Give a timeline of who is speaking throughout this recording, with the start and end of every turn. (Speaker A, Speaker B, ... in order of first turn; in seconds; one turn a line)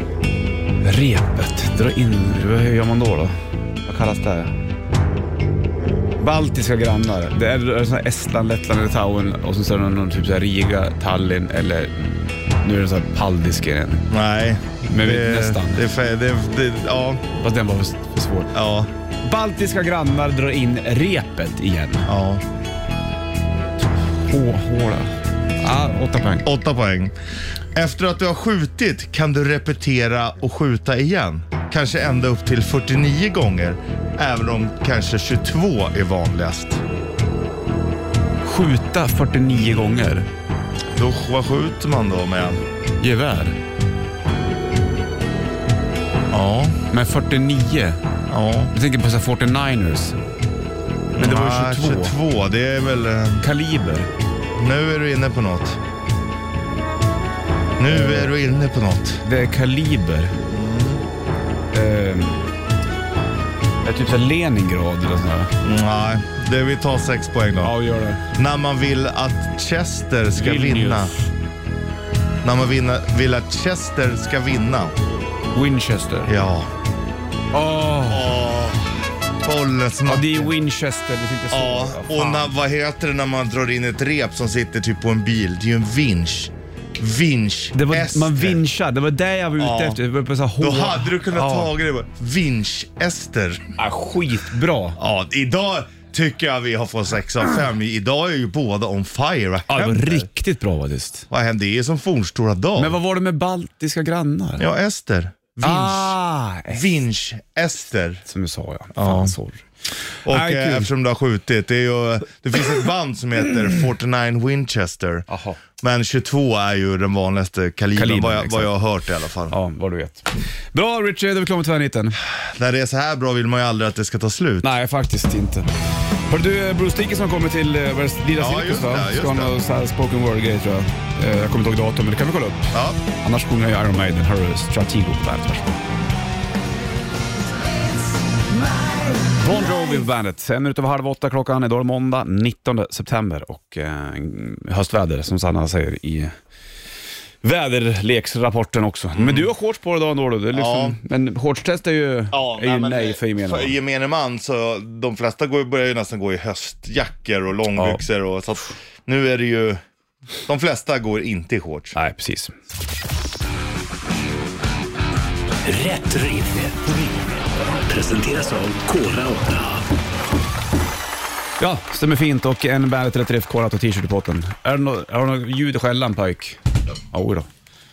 Speaker A: 0.8-4.5
Speaker A: 6.2-14.1
Speaker B: 14.1-17.3
Speaker A: 14.9-15.9
Speaker A: 17.3-18.5
Speaker B: 18.5-18.9
Speaker A: 19.2-22.1
Speaker B: 22.1-22.4
Speaker A: 24.0-26.5
Speaker B: 26.4-27.1
Speaker B: 27.7-36.8
Speaker A: 38.4-40.3
Speaker B: 40.9-42.6
Speaker A: 43.0-43.6
Speaker B: 46.3-46.8
Speaker A: 46.9-48.0
Speaker B: 48.3-48.7
Speaker A: 48.7-50.2
Speaker B: 51.1-53.4
Speaker A: 51.2-52.1
Speaker A: 53.4-54.1
Speaker B: 54.5-55.8
Speaker B: 57.8-59.2
Speaker A: 57.9-58.2
Speaker A: 59.2-60.4
Speaker B: 60.5-61.0
Speaker A: 61.7-62.4
Speaker A: 63.8-65.5
Speaker B: 65.6-67.7
Speaker A: 67.6-68.2
Speaker B: 68.3-71.1
Speaker A: 70.4-71.3
Speaker B: 72.4-74.9
Speaker A: 75.5-76.3
Speaker B: 76.3-76.7
Speaker A: 77.5-78.3
Speaker B: 78.0-78.9
Speaker B: 79.4-80.5
Speaker A: 80.0-82.5
Speaker B: 81.5-88.6
Speaker A: 87.7-91.7
Speaker B: 89.6-90.0
Speaker B: 90.6-93.6
Speaker A: 93.8-95.0
Speaker B: 95.0-100.3
Speaker A: 99.7-101.2
Speaker B: 101.3-103.0
Speaker A: 102.8-104.6
Speaker B: 104.6-106.2
Speaker A: 105.6-106.8
Speaker B: 106.7-108.2
Speaker A: 108.2-110.9
Speaker B: 108.9-109.3
Speaker B: 110.2-115.2
Speaker A: 115.3-115.6
Speaker B: 115.8-119.5
Speaker A: 118.0-118.7
Speaker A: 119.5-122.2
Speaker B: 122.2-124.7
Speaker A: 124.6-125.7
Speaker A: 126.3-135.8
Speaker B: 128.4-129.5
Speaker B: 132.7-133.0
Speaker A: 139.2-146.3
Speaker A: 147.4-153.8
Speaker B: 149.1-149.5
Speaker B: 150.5-151.0
Speaker B: 152.3-159.8
Speaker A: 157.8-158.0
Speaker B: 160.5-162.0
Speaker A: 161.9-162.5
Speaker C: 165.6-167.2
Speaker C: 167.9-169.8
Speaker A: 171.6-176.6
Speaker A: 177.1-177.5